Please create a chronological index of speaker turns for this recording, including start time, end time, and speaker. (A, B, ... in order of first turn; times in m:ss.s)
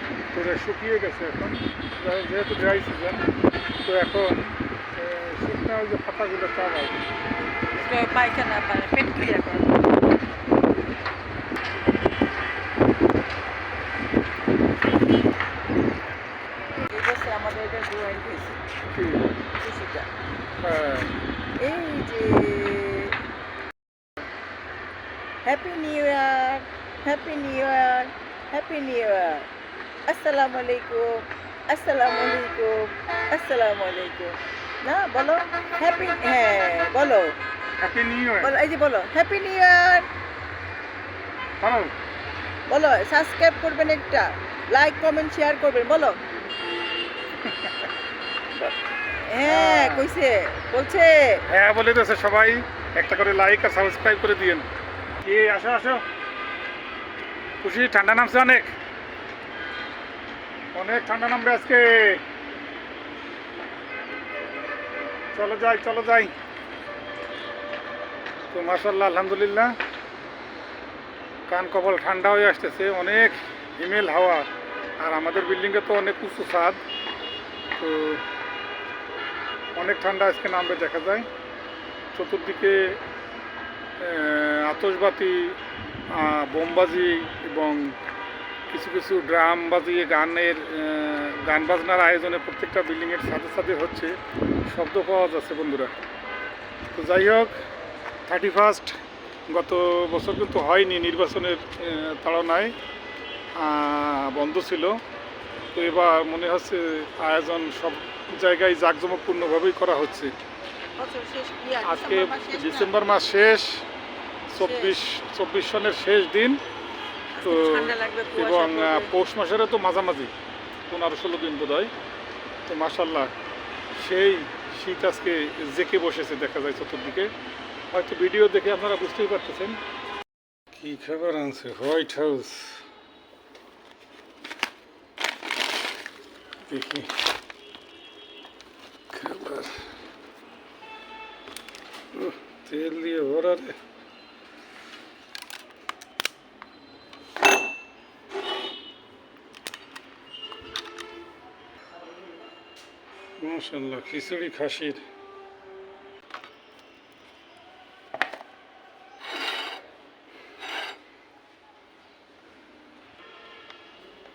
0:00.3-0:03.2 A
0:03.8-0:07.0 A
0:07.7-0:09.8 B
0:16.7-0:18.6 B
0:18.9-0:19.3 A
0:19.6-0:20.1 B
0:20.6-0:21.1 A
0:21.6-0:23.2 B
0:25.4-0:29.5 B
0:30.1-0:37.4 B
0:37.8-0:38.5 A
0:38.4-0:40.1 B
0:41.6-0:41.9 A
0:42.7-0:46.2 B
0:47.4-0:47.9 A
0:48.6-0:51.4 B
0:49.4-0:50.1 A
0:51.5-0:54.7 A
0:55.2-0:56.0 A
0:57.6-0:58.7 A
1:00.7-1:02.2 A
1:05.4-1:06.3 A
1:08.5-1:09.8 A
1:11.5-1:14.5 A
1:15.0-1:16.8 A
1:17.8-1:18.2 A
1:19.8-1:21.3 A
1:22.1-1:23.0 A
1:24.0-1:25.6 A
1:26.1-1:28.0 A
1:28.7-1:34.2 A
1:34.7-1:35.9 A
1:36.9-1:37.6 A
1:38.3-1:39.0 A
1:39.5-1:42.7 A
1:43.6-1:45.0 A
1:45.7-1:50.3 A
1:51.0-1:52.9 B
1:51.8-1:53.8 A
1:54.5-1:56.6 A
1:54.6-1:55.0 B
1:57.4-1:59.1 B
1:57.4-2:00.3 A
2:00.9-2:01.9 A
2:02.7-2:03.3 A
2:04.0-2:07.3 A
2:07.9-2:09.8 A
2:10.7-2:12.8 A
2:16.7-2:17.1 A
2:19.1-2:19.8 A
2:22.1-2:23.8 A
2:33.4-2:35.0 A